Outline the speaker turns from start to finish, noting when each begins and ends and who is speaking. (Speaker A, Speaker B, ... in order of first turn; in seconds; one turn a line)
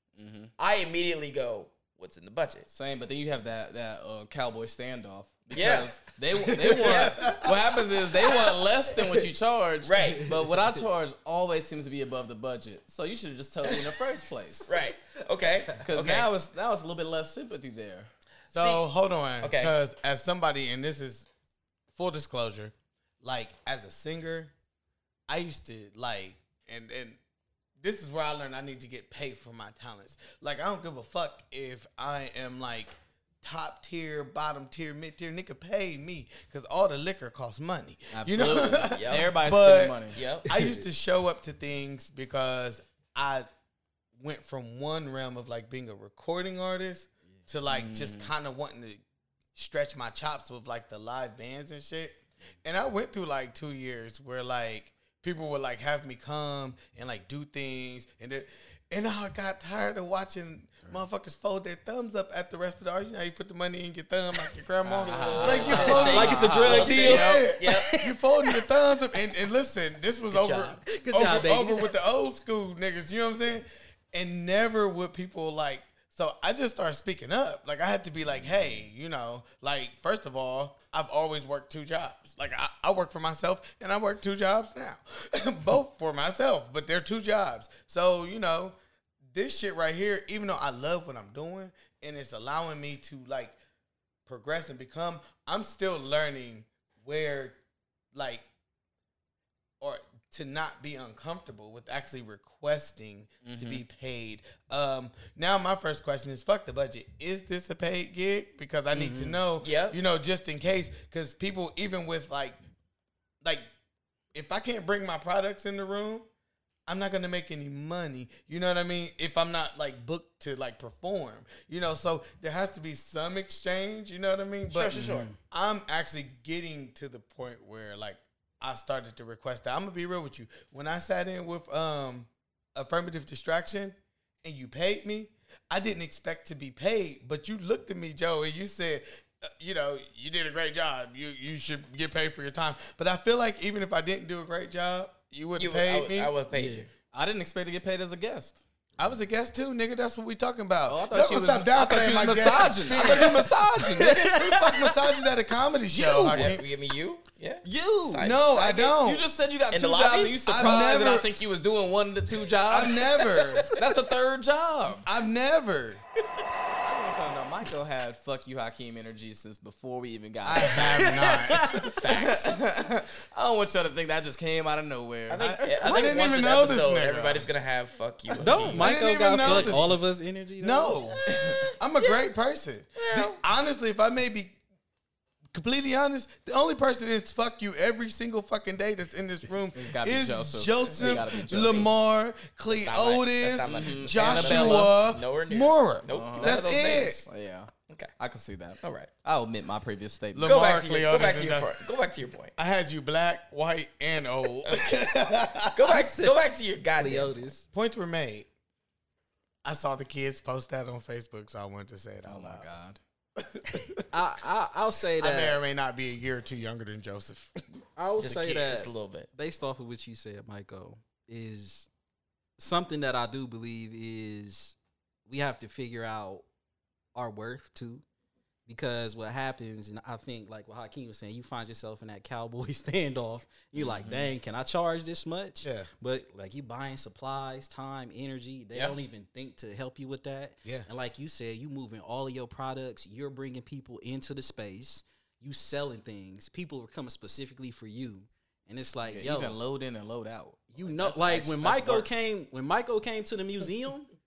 Speaker A: 0.2-0.5
Speaker B: 0.6-2.7
Speaker A: 2.7-14.7
Speaker B: 5.5-5.9
Speaker B: 6.6-7.5
Speaker C: 7.0-7.3
Speaker B: 9.8-10.5
Speaker B: 13.6-14.0
Speaker B: 14.6-16.3
Speaker A: 15.8-18.1
Speaker B: 18.5-18.8
Speaker C: 18.5-21.3
Speaker B: 19.4-19.7
Speaker C: 21.9-24.5
Speaker C: 25.3-27.2
Speaker C: 27.8-43.5
Speaker A: 38.1-40.2
Speaker B: 38.9-39.3
Speaker B: 40.1-40.5
Speaker C: 44.2-49.0
Speaker A: 47.7-48.3
Speaker C: 49.5-88.8
Speaker D: 64.8-68.6
Speaker A: 64.9-67.4
Speaker B: 65.0-67.9
Speaker B: 70.3-70.8
Speaker D: 70.8-71.9
Speaker C: 89.3-93.5
Speaker C: 94.3-97.6
Speaker C: 98.1-98.4
Speaker C: 99.8-112.6
Speaker A: 103.4-103.8
Speaker D: 108.9-109.4
Speaker B: 109.6-110.0
Speaker C: 113.4-113.7
Speaker C: 114.3-116.2
Speaker C: 116.9-146.3
Speaker B: 124.7-125.3
Speaker D: 125.0-125.3
Speaker B: 145.6-146.9
Speaker D: 146.5-146.9
Speaker A: 147.1-148.6
Speaker C: 149.0-156.6
Speaker A: 150.9-154.5
Speaker D: 153.7-154.9
Speaker A: 155.9-156.6
Speaker B: 156.3-158.5
Speaker A: 157.6-165.1
Speaker C: 158.2-159.2
Speaker B: 159.7-161.0
Speaker C: 160.4-161.3
Speaker C: 162.7-163.6
Speaker B: 163.3-163.8
Speaker C: 165.0-166.0
Speaker A: 166.8-176.7
Speaker C: 170.4-171.7
Speaker D: 171.5-171.8
Speaker B: 171.6-172.6
Speaker B: 175.3-178.9
Speaker C: 175.3-177.5
Speaker D: 178.4-181.0
Speaker C: 178.5-180.0
Speaker B: 179.4-179.8
Speaker C: 180.6-184.6
Speaker B: 181.1-182.2
Speaker A: 181.2-181.6
Speaker B: 182.9-183.4
Speaker C: 185.5-197.2
Speaker A: 189.7-191.9
Speaker B: 191.1-191.9
Speaker B: 192.7-197.3
Speaker A: 193.6-194.9
Speaker A: 196.1-200.5
Speaker B: 198.8-199.1
Speaker C: 200.3-201.8
Speaker B: 200.4-202.5
Speaker C: 202.6-206.1
Speaker B: 204.6-207.4
Speaker D: 205.9-206.3
Speaker D: 207.0-207.7
Speaker C: 207.7-208.5
Speaker C: 209.6-212.7
Speaker A: 212.2-213.0
Speaker C: 213.4-214.0
Speaker D: 213.8-215.6
Speaker C: 215.2-217.6
Speaker D: 217.9-221.9
Speaker B: 218.2-219.3
Speaker D: 222.6-226.4
Speaker D: 227.1-228.0
Speaker D: 228.7-249.6
Speaker A: 233.7-234.3
Speaker C: 235.6-235.9
Speaker A: 249.1-252.1
Speaker D: 250.7-254.1